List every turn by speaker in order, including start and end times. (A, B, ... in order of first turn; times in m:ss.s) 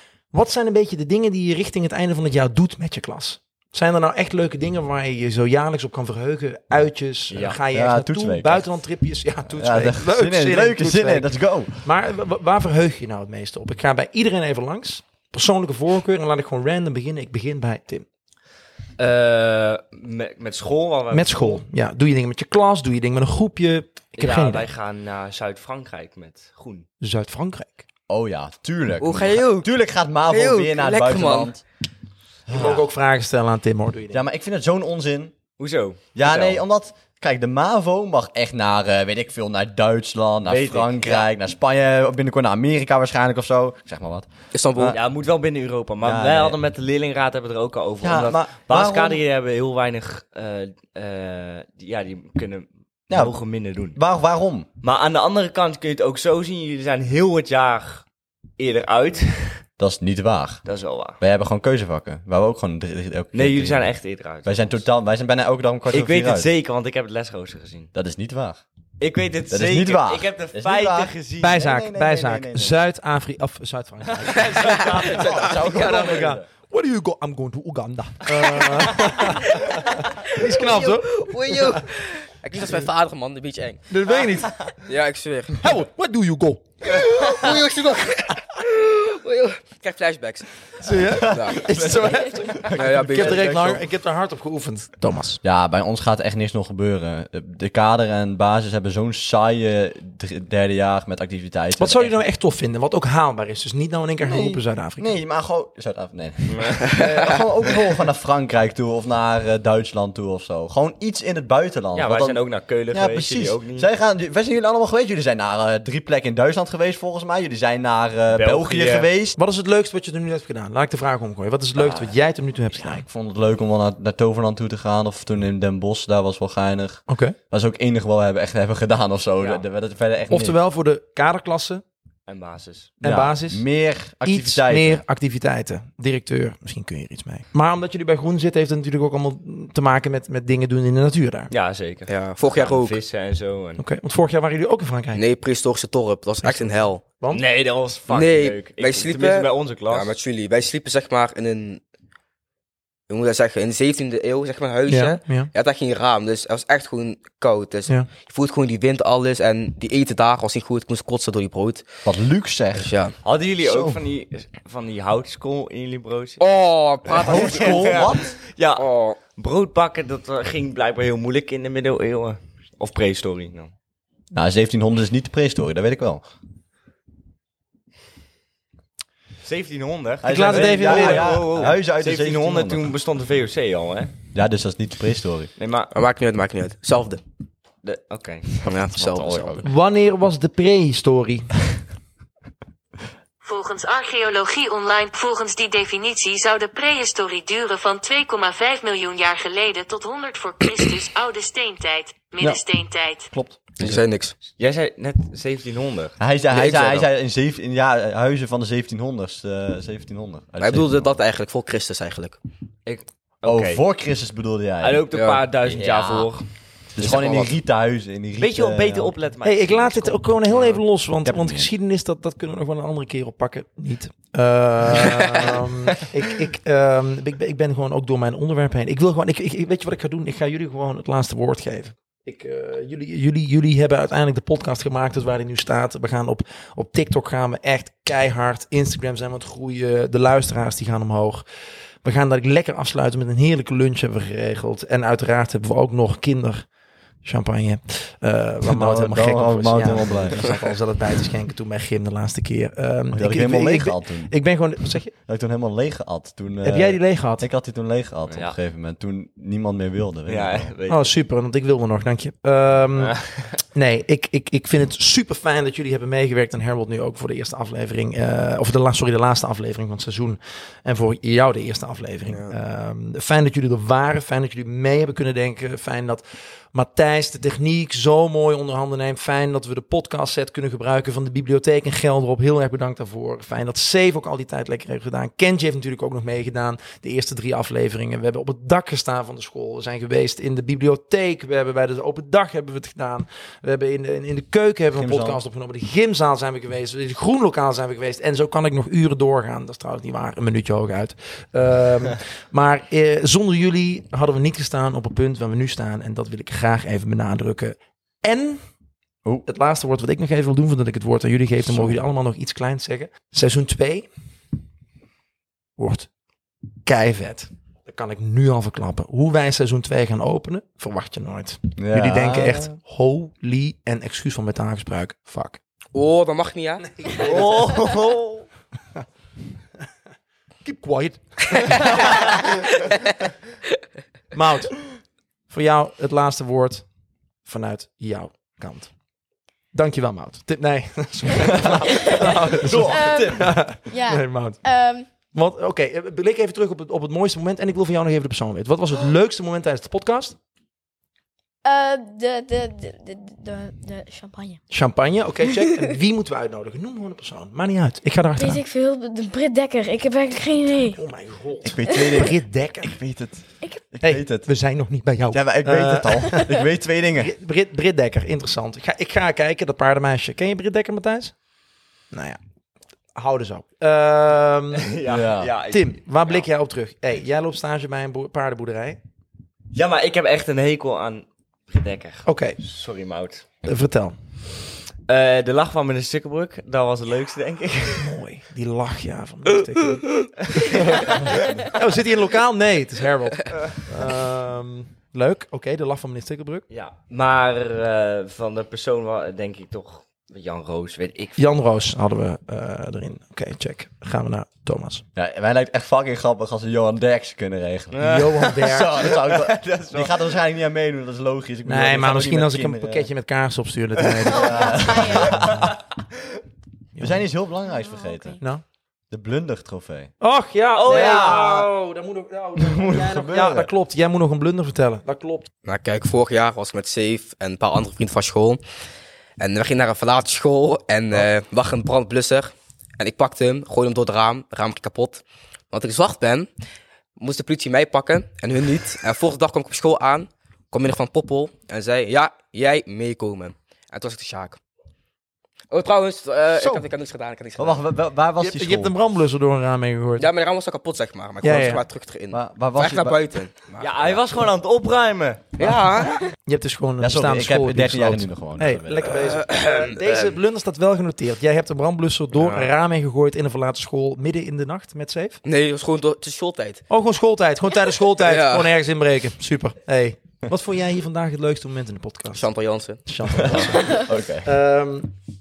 0:00.3-0:18.0 A
0:07.3-0:07.6 B
0:07.7-0:08.7 C
0:09.4-0:11.9 C
0:19.0-0:21.6 B
0:21.1-0:24.7 A
0:24.1-0:26.9 B
0:27.0-0:27.8 A
0:28.1-0:31.6 C
0:29.0-0:29.7 D
0:30.3-0:31.5 D
0:32.5-0:32.8 C
0:32.5-0:34.2 A
0:34.1-0:35.3 C
0:35.6-0:36.6 B
0:36.1-0:45.0 C
0:40.4-0:41.3 B
0:44.5-0:44.9 D
0:44.9-0:54.0 B
0:46.0-0:46.6 C
0:48.0-0:49.2 C
0:53.1-0:53.4 C
0:53.9-0:54.7 C
0:54.8-0:58.0 B
0:58.6-0:59.6 B
0:59.8-1:00.6 C
1:00.6-1:01.2 B
1:01.2-1:03.9 C
1:03.3-1:04.8 B
1:04.4-1:06.5 C
1:05.9-1:07.9 B
1:07.9-1:08.6 C
1:09.0-1:11.7 B
1:09.5-1:12.8 C
1:11.4-1:21.8 A
1:14.2-1:16.4 B
1:14.5-1:16.2 D
1:14.8-1:16.4 C
1:20.2-1:24.2 D
1:23.9-1:24.7 A
1:24.8-1:25.6 D
1:25.6-1:27.6 A
1:26.9-1:30.6 D
1:30.8-1:35.4 A
1:30.9-1:33.8 C
1:31.2-1:31.7 D
1:32.7-1:33.7 D
1:35.4-1:42.1 C
1:41.8-1:45.1 A
1:44.2-1:59.4 C
1:51.9-1:53.9 B
1:58.3-1:59.1 B
1:59.4-2:03.0 A
2:02.8-2:10.6 C
2:07.1-2:07.4 A
2:10.3-2:11.8 A
2:12.3-2:12.9 B
2:13.0-2:13.6 A
2:13.0-2:15.0 C
2:14.2-2:21.5 A
2:21.5-2:23.8 B
2:22.1-2:23.0 D
2:23.8-2:25.2 A
2:25.1-2:27.0 D
2:26.4-2:27.4 A
2:27.3-2:30.1 B
2:28.1-2:31.8 D
2:33.1-2:41.8 D
2:34.9-2:35.5 A
2:42.0-2:42.9 C
2:42.7-2:43.1 D
2:43.2-2:46.4 B
2:43.6-2:44.0 C
2:46.4-2:48.1 D
2:47.1-2:53.7 B
2:47.2-2:48.4 C
2:48.8-2:49.2 D
2:54.3-2:56.2 C
2:59.4-3:04.1 B
3:00.2-3:02.9 C
3:00.2-3:01.5 A
3:04.3-3:05.5 C
3:05.6-3:05.9 B
3:05.9-3:07.2 D
3:07.8-3:09.6 B
3:08.6-3:09.6 D
3:09.0-3:09.6 C
3:09.6-3:11.5 A
3:13.4-3:23.3 E
3:23.3-3:24.0 C
3:23.8-3:24.3 D
3:24.6-3:26.2 B
3:26.2-3:31.2 C
3:26.5-3:27.0 D
3:30.6-3:32.4 D
3:32.8-3:33.8 B
3:33.4-3:35.1 C
3:34.8-3:36.5 B
3:35.1-3:35.4 D
3:35.6-3:36.3 C
3:36.9-3:39.1 C
3:37.0-3:37.6 B
3:38.4-3:40.8 B
3:39.4-4:01.4 A
3:41.2-3:41.7 C
4:02.0-4:06.6 A
4:07.2-4:15.1 A
4:08.6-4:10.5 C
4:13.1-4:14.3 C
4:15.3-4:20.7 C
4:16.6-4:17.4 A
4:18.3-4:18.6 B
4:20.3-4:21.1 B
4:20.9-5:08.6 A
4:23.0-4:23.6 B
4:32.3-4:32.6 D
4:54.9-4:55.4 C
5:09.4-5:14.1 A
5:11.6-5:12.0 C
5:15.8-5:16.1 A
5:16.8-5:25.6 A
5:21.8-5:22.7 C
5:25.9-5:27.1 D
5:27.0-5:27.8 A
5:27.1-5:28.4 B
5:30.6-5:32.5 A
5:34.3-5:34.8 A
5:35.5-5:36.8 A
5:37.4-5:38.9 A
5:39.7-5:44.6 A
5:41.4-5:43.8 C
5:42.9-5:45.1 F
5:45.1-5:50.4 A
5:51.6-5:54.6 F
5:54.7-5:58.6 A
5:58.4-6:01.0 F
6:00.9-6:03.0 A
6:01.6-6:04.5 C
6:01.9-6:02.2 F
6:04.0-6:06.5 A
6:05.3-6:07.3 C
6:07.2-6:11.3 A
6:12.1-6:12.4 A
6:13.1-6:15.0 A
6:14.8-6:16.4 B
6:15.0-6:15.5 C
6:15.7-6:19.0 A
6:19.7-6:23.5 B
6:22.2-6:22.6 A
6:23.6-6:24.2 A
6:25.1-6:28.2 B
6:28.0-6:36.6 A
6:30.6-6:31.2 B
6:31.2-6:31.6 C
6:36.7-6:41.4 B
6:41.4-6:45.0 A
6:45.2-6:53.1 C
6:47.9-6:50.2 B
6:48.0-6:49.0 A
6:51.6-6:55.7 A
6:54.2-6:55.7 C
6:54.3-6:55.4 F
6:56.9-6:57.3 A
6:57.0-6:58.4 C
6:57.7-6:58.4 F
6:59.1-7:00.1 C
7:00.2-7:05.5 A
7:00.8-7:01.7 B
7:00.8-7:01.6 C
7:02.6-7:03.7 C
7:05.6-7:08.6 D
7:09.4-7:16.5 D
7:17.2-7:24.6 D
7:25.7-7:27.8 D
7:27.6-7:28.9 C
7:28.4-7:30.3 A
7:30.2-7:34.2 D
7:31.4-7:31.8 A
7:32.3-7:33.2 C
7:33.8-7:35.5 B
7:35.6-7:36.2 D
7:36.4-7:45.4 A
7:37.0-7:39.2 C
7:39.2-7:40.3 D
7:42.3-7:42.7 D
7:45.4-7:46.8 D
7:46.9-7:52.4 A
7:48.1-7:48.7 D
7:52.3-7:53.6 D
7:53.0-7:55.1 A
7:53.4-7:54.5 C